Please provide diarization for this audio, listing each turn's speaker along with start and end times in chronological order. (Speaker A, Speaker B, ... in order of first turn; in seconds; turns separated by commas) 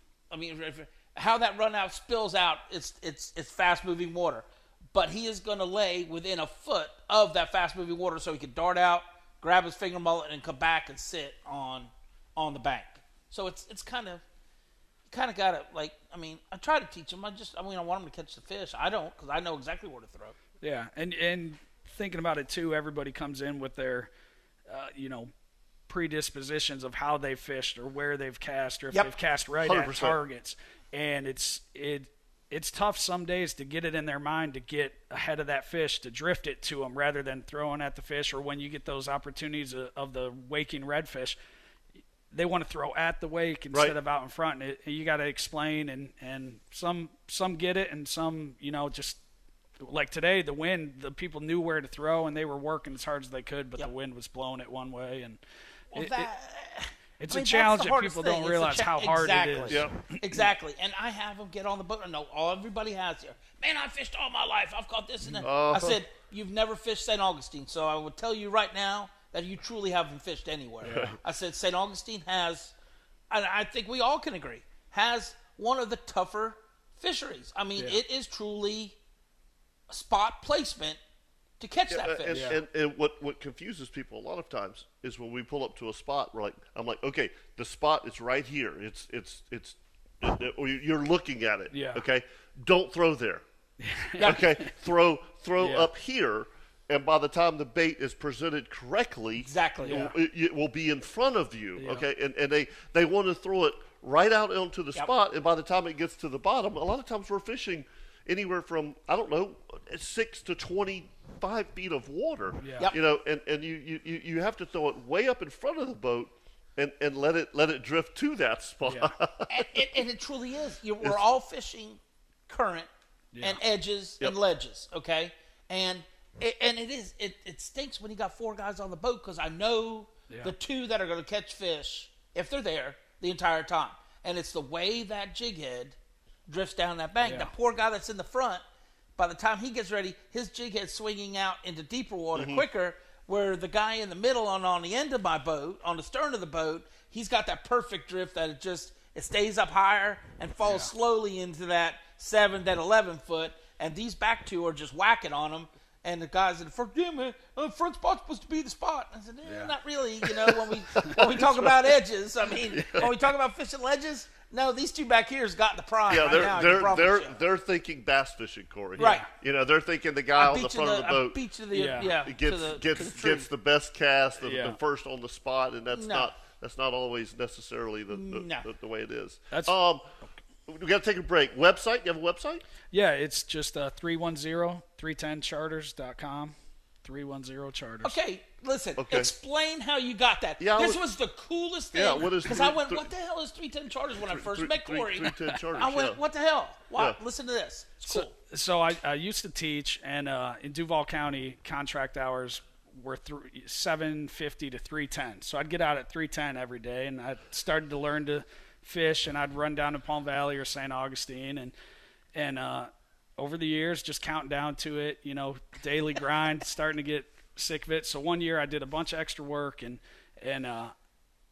Speaker A: 0.3-14.2, Speaker A: 15.1-20.4, Speaker B: 20.6-24.1, Speaker B: 24.7-25.3, Speaker B: 25.9-41.4, Speaker C: 29.6-30.2, Speaker B: 42.3-49.2, Speaker B: 49.8-55.4, Speaker A: 55.9-72.7, Speaker B: 55.9-56.3, Speaker B: 57.2-60.5, Speaker B: 65.2-65.9, Speaker C: 65.4-66.0, Speaker B: 70.8-71.1, Speaker C: 70.9-71.2, Speaker A: 73.3-79.0, Speaker A: 79.9-81.0, Speaker A: 81.6-82.6, Speaker C: 81.9-93.4, Speaker B: 82.3-82.6, Speaker B: 91.7-92.0, Speaker B: 93.8-94.7, Speaker A: 94.2-94.4, Speaker C: 94.2-119.9, Speaker B: 95.6-95.9, Speaker A: 99.4-100.1, Speaker B: 99.8-100.1, Speaker B: 101.8-102.1, Speaker B: 112.6-112.9, Speaker B: 118.8-119.1, Speaker A: 119.5-122.9, Speaker B: 123.3-123.6, Speaker A: 123.4-136.0, Speaker A: 136.5-138.6, Speaker B: 137.2-137.5, Speaker A: 139.2-167.4, Speaker C: 142.3-142.6, Speaker B: 150.6-150.9, Speaker B: 159.5-159.7, Speaker C: 161.2-161.7, Speaker C: 162.8-163.1, Speaker C: 166.1-171.4, Speaker B: 169.0-169.2, Speaker A: 169.0-169.3, Speaker A: 170.4-173.5, Speaker B: 171.7-172.2, Speaker C: 172.2-180.1, Speaker B: 174.4-174.8, Speaker A: 175.9-176.3, Speaker A: 178.1-178.7, Speaker B: 179.5-180.3, Speaker C: 180.7-182.6, Speaker B: 182.9-188.1, Speaker A: 188.0-198.3, Speaker C: 189.0-189.3, Speaker C: 190.6-191.0, Speaker C: 191.9-193.1, Speaker C: 194.2-196.2, Speaker B: 198.0-211.7, Speaker B: 212.3-220.9